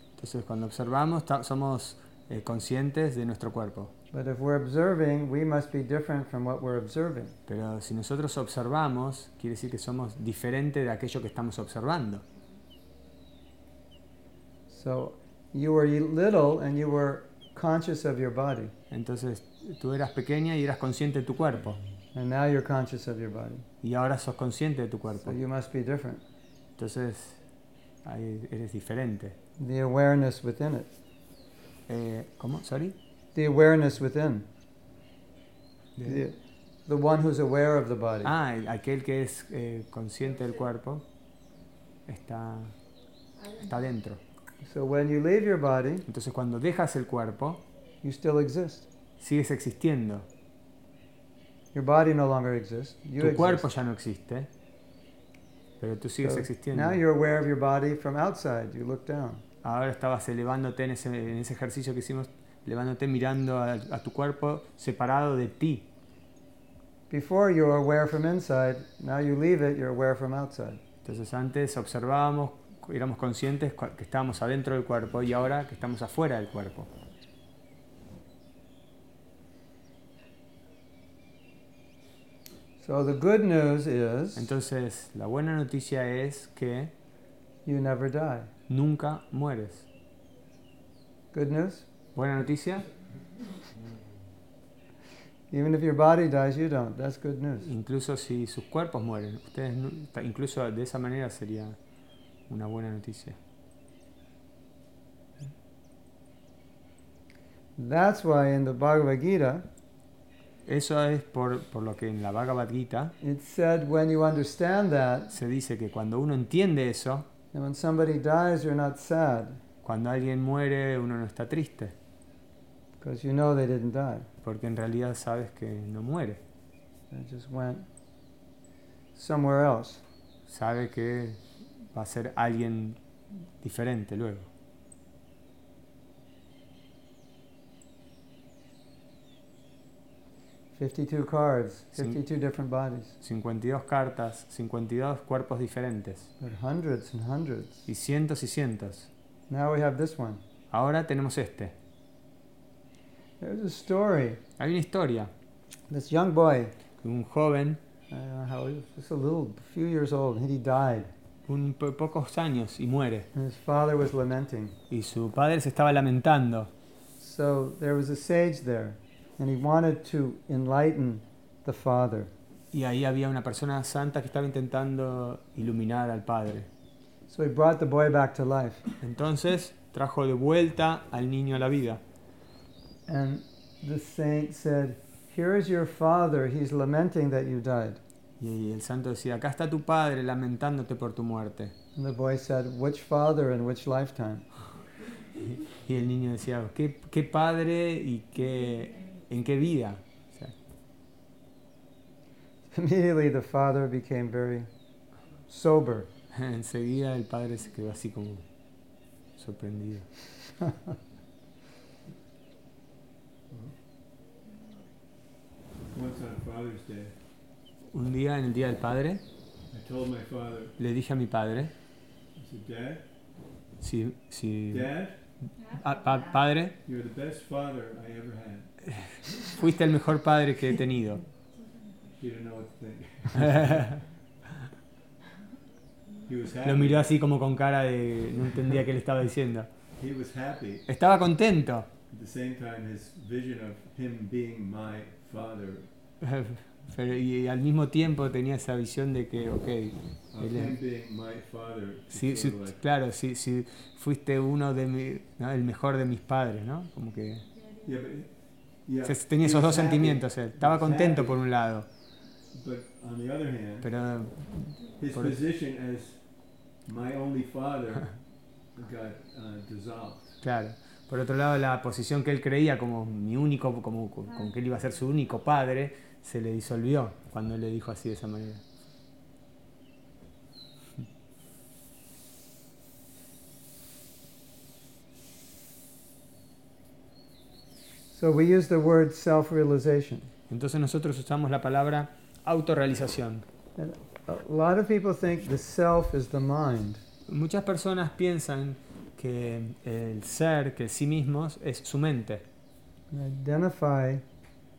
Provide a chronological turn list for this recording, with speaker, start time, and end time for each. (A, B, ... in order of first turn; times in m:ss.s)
0:00.2-0:03.9 A
0:04.1-0:07.3 B
0:07.5-0:12.2 A
0:14.7-0:18.7 B
0:18.9-0:21.8 A
0:22.1-0:23.6 B
0:23.8-0:25.4 A
0:25.2-0:26.2 B
0:26.8-0:27.4 A
0:28.0-0:29.4 A
0:29.6-0:30.9 B
0:31.9-0:32.9 A
0:33.3-0:34.5 B
0:36.0-0:36.2 A
0:36.0-0:38.3 B
0:38.2-0:41.0 A
0:42.1-0:42.7 A
0:43.5-0:44.2 A
0:44.6-0:46.0 B
0:46.1-0:47.6 A
0:48.0-0:48.9 B
0:49.2-0:50.3 A
0:51.7-0:53.7 B
0:53.2-0:54.5 A
0:55.8-0:57.0 A
0:56.2-0:59.4 B
0:59.6-1:05.9 A
1:07.1-1:10.8 B
1:11.0-1:16.9 A
1:22.8-1:24.5 B
1:24.3-1:26.9 A
1:27.6-1:28.5 B
1:28.7-1:29.9 A
1:31.3-1:31.8 B
1:32.1-1:32.9 A
1:35.5-1:37.7 B
1:37.6-1:41.8 A
1:42.5-1:43.4 A
1:47.8-1:49.7 B
1:50.6-1:53.1 A
1:53.2-1:55.3 B
1:55.3-1:57.3 A
1:57.5-1:59.6 B
1:59.8-2:01.9 A
2:03.0-2:04.3 B
2:04.4-2:06.4 A
2:07.1-2:07.9 B
2:09.1-2:10.0 B
2:10.5-2:11.4 A
2:11.9-2:13.0 A
2:13.6-2:14.5 A
2:20.7-2:23.1 B
2:23.2-2:26.3 A
2:26.4-2:27.8 B
2:27.9-2:29.1 A
2:29.5-2:30.4 B
2:30.7-2:31.7 A
2:33.4-2:34.4 B
2:34.6-2:35.3 A
2:35.9-2:36.7 B
2:37.0-2:37.8 A
2:38.1-2:41.1 B
2:41.5-2:43.3 A
2:43.3-2:44.8 B
2:44.9-2:46.7 A
2:47.2-2:52.3 B
2:52.7-2:56.7 A
2:57.3-2:58.8 B
2:59.0-3:02.0 A
3:03.1-3:08.0 B
3:08.4-3:11.7 A
3:12.0-3:14.4 B
3:15.7-3:20.5 A
3:22.7-3:24.7 B
3:25.5-3:26.1 B
3:26.3-3:28.4 A
3:29.4-3:30.1 A
3:35.9-3:37.1 C
3:37.9-3:39.2 A
3:39.7-3:40.7 C
3:40.8-3:41.7 A
3:42.4-3:43.0 C
3:43.8-3:46.7 A
3:44.7-3:45.2 C
3:46.8-3:48.8 C
3:49.5-3:51.2 A
3:52.2-3:54.0 C
3:56.2-3:57.1 C
3:56.6-3:59.7 A
4:00.0-4:00.8 C
4:00.9-4:01.9 A
4:02.1-4:05.9 C
4:06.2-4:10.8 A
4:10.3-4:12.8 C
4:12.1-4:17.5 A
4:17.8-4:21.4 C
4:19.0-4:21.9 A
4:22.5-4:23.9 C
4:23.8-4:25.4 A
4:25.0-4:28.2 C
4:28.7-4:30.4 C
4:30.4-4:38.6 A
4:48.1-4:50.3 B
4:50.5-4:53.4 A
4:53.8-4:57.0 B
4:57.3-5:02.4 A
5:03.1-5:04.2 B